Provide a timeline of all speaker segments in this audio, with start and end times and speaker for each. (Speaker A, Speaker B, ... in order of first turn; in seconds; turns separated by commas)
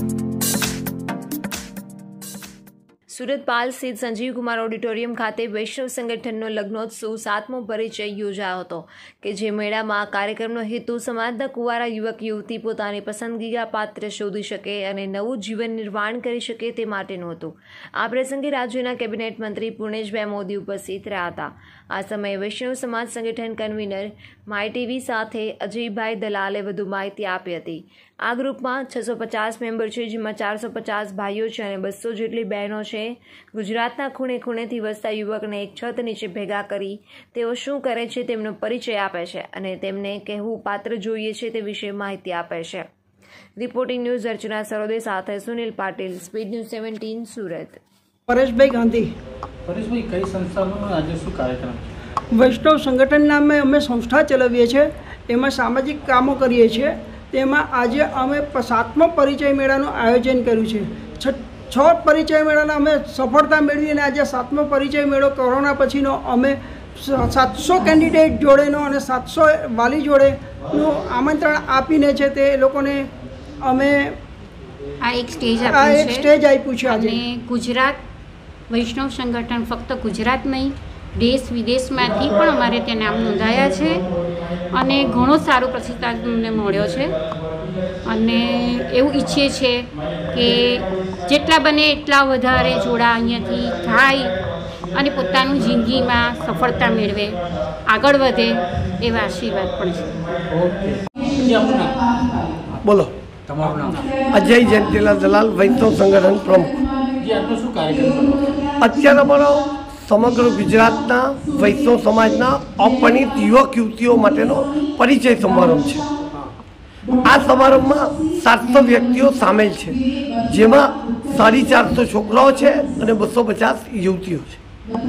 Speaker A: 3.1-42.9, Speaker A: 43.6-47.8, Speaker B: 48.3-49.1, Speaker C: 49.7-51.9, Speaker B: 52.3-73.1, Speaker B: 73.6-74.2, Speaker D: 75.0-76.3, Speaker B: 75.6-77.2, Speaker D: 76.9-78.0, Speaker D: 78.7-87.2, Speaker D: 88.0-100.3, Speaker C: 100.5-102.2, Speaker E: 102.8-103.1, Speaker C: 103.5-104.3, Speaker E: 104.3-106.8, Speaker C: 107.2-108.7, Speaker E: 108.8-116.1, Speaker E: 117.2-124.6